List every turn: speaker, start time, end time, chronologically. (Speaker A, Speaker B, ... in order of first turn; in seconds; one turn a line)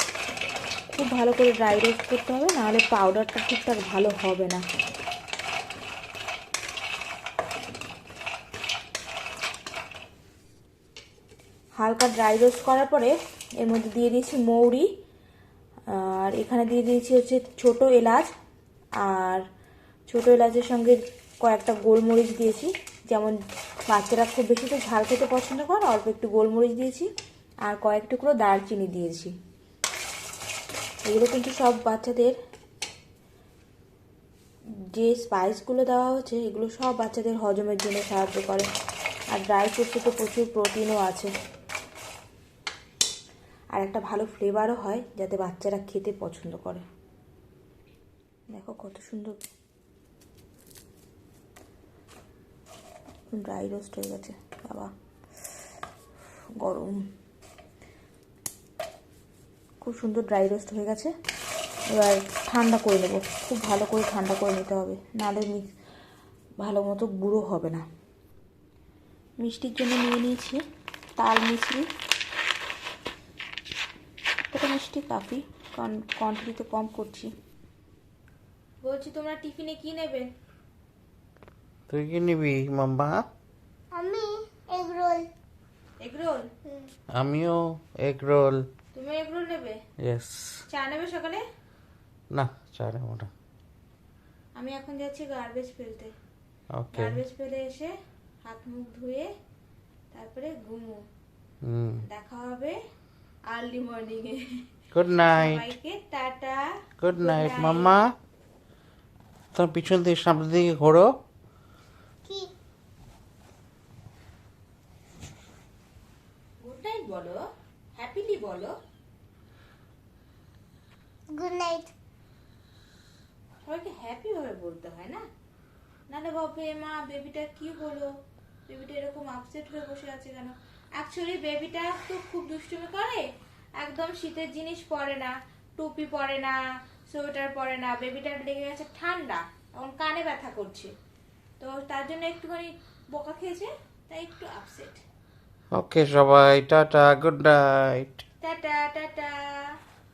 Speaker A: 0.9-4.6
Speaker A: 11.8-14.9
Speaker A: 15.9-18.3
Speaker A: 19.0-19.4
Speaker A: 20.1-23.4
Speaker A: 23.9-27.1
Speaker A: 27.7-29.3
Speaker A: 31.1-32.4
Speaker A: 34.9-38.7
Speaker A: 39.3-41.3
Speaker A: 43.7-46.8
Speaker A: 48.5-49.4
Speaker A: 53.3-54.9
Speaker A: 56.6-57.0
Speaker A: 59.8-61.1
Speaker A: 61.9-65.7
Speaker A: 66.6-67.8
Speaker A: 69.4-70.6
Speaker A: 71.2-71.8
Speaker A: 74.5-77.3
Speaker A: 78.8-80.3
Speaker B: 81.9-83.2
Speaker C: 83.9-85.3
Speaker A: 86.0-86.5
Speaker C: 86.7-86.9
Speaker B: 87.2-88.6
Speaker A: 88.9-89.8
Speaker B: 90.0-90.6
Speaker A: 90.7-91.4
Speaker B: 92.3-93.3
Speaker A: 94.5-96.1
Speaker B: 96.8-97.2
Speaker A: 96.9-97.9
Speaker A: 98.4-99.3
Speaker A: 100.1-101.0
Speaker B: 101.6-102.0
Speaker A: 102.0-102.8
Speaker A: 103.5-104.4
Speaker B: 104.9-105.7
Speaker A: 105.3-108.0
Speaker B: 107.0-108.1
Speaker B: 109.5-111.1
Speaker C: 112.2-112.5
Speaker A: 116.6-117.4
Speaker A: 118.0-118.8
Speaker C: 121.3-121.9
Speaker A: 123.6-125.2
Speaker A: 126.1-128.1
Speaker A: 128.7-133.2
Speaker A: 133.8-136.6
Speaker A: 137.1-140.9
Speaker A: 141.6-145.0
Speaker B: 145.7-148.2
Speaker A: 148.4-149.7